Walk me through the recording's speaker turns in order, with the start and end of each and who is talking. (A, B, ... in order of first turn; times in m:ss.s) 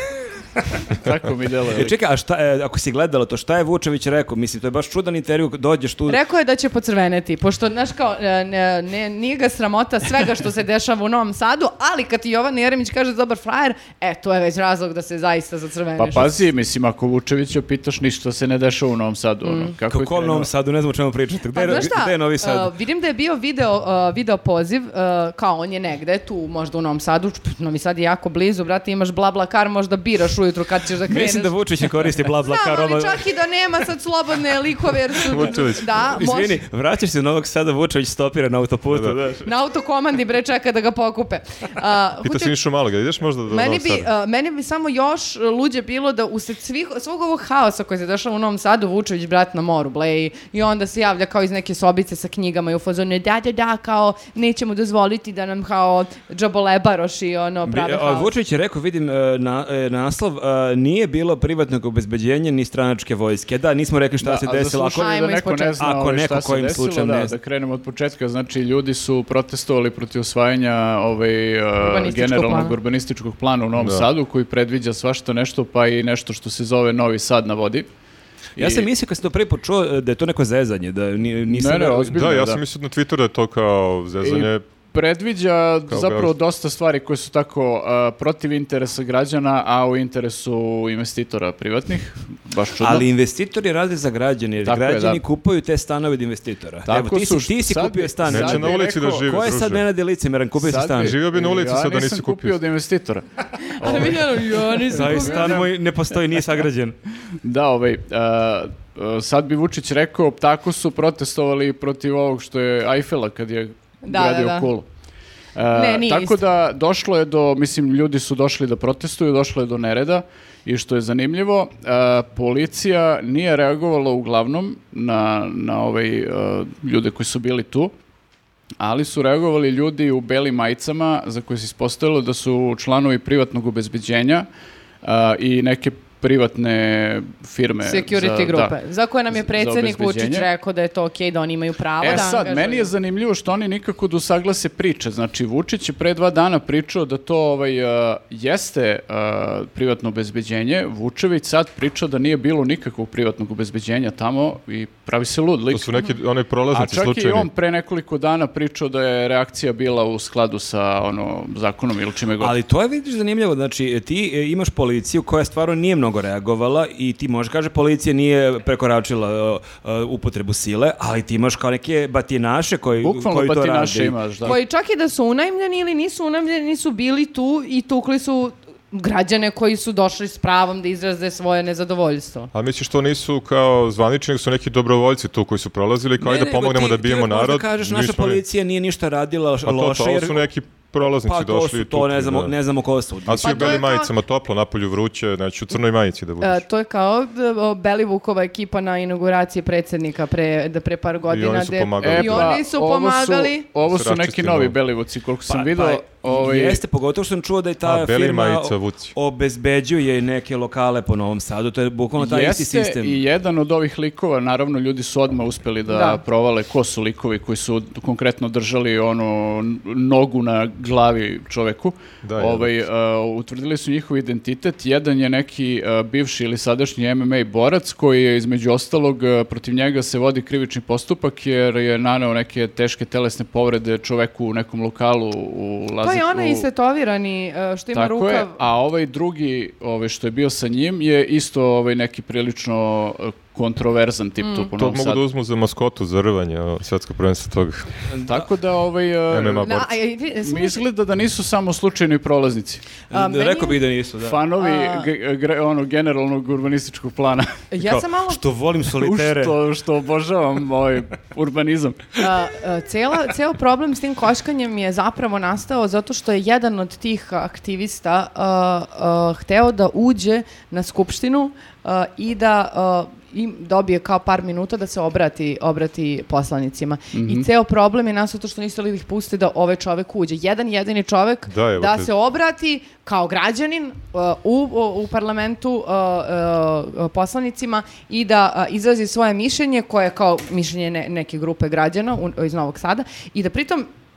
0:00.9-0:01.9 A
0:01.7-0:06.2 B
0:06.1-0:16.4 C
0:16.0-0:20.5 A
0:19.4-0:19.7 C
0:19.9-0:22.7 B
0:21.5-0:31.5 C
0:31.1-0:33.2 B
0:32.3-0:36.6 C
0:35.2-0:36.2 D
0:36.0-0:39.5 B
0:38.9-0:39.2 D
0:39.4-0:42.5 C
0:42.2-0:44.1 D
0:43.5-0:58.3 C
0:57.7-1:05.1 B
1:04.2-1:17.9 A
1:05.0-1:05.8 C
1:05.8-1:07.3 B
1:11.8-1:12.8 C
1:13.8-1:14.1 D
1:18.6-1:18.9 A
1:18.6-1:22.2 B
1:21.5-1:22.6 A
1:22.1-1:24.6 D
1:24.2-1:33.1 A
1:25.9-1:26.3 D
1:32.8-1:41.2 B
1:34.6-1:35.2 A
1:36.9-1:39.3 A
1:38.3-1:39.8 D
1:40.6-1:45.7 A
1:41.0-1:42.6 D
1:43.6-1:45.6 C
1:44.9-1:47.0 B
1:47.4-1:54.9 A
1:54.0-1:54.7 C
1:55.6-2:07.9 A
1:55.7-1:56.4 C
2:08.8-2:14.5 A
2:15.0-2:18.7 A
2:17.8-2:22.9 C
2:19.3-2:20.5 A
2:22.0-2:36.0 A
2:35.7-2:37.5 D
2:36.7-2:42.6 A
2:42.4-2:54.2 B
2:53.0-2:54.6 A
2:54.4-3:02.5 C
3:02.5-3:08.4 D
3:06.2-3:10.5 B
3:09.6-3:12.5 D
3:11.0-3:13.8 B
3:13.3-3:16.6 D
3:13.4-3:14.1 C
3:16.4-3:23.7 C
3:21.3-3:22.6 D
3:22.0-3:26.8 A
3:23.8-3:24.8 D
3:25.5-3:33.2 B
3:27.8-3:29.1 D
3:32.2-3:56.7 A
3:35.9-3:36.2 C
3:42.2-3:42.7 D
3:56.0-3:58.6 C
3:57.9-4:05.2 A
4:04.4-4:04.7 C
4:04.8-4:07.9 D
4:08.1-4:08.4 B
4:08.2-4:09.8 A
4:09.3-4:09.9 D
4:09.6-4:10.8 C
4:10.4-4:12.8 A
4:13.1-4:14.4 B
4:13.1-4:13.8 C
4:14.2-4:17.6 A
4:14.6-4:15.1 C
4:17.7-4:18.4 C
4:17.9-4:19.6 B
4:19.0-4:22.2 A
4:22.2-4:53.9 C
4:37.1-4:37.5 A
4:41.5-4:42.1 D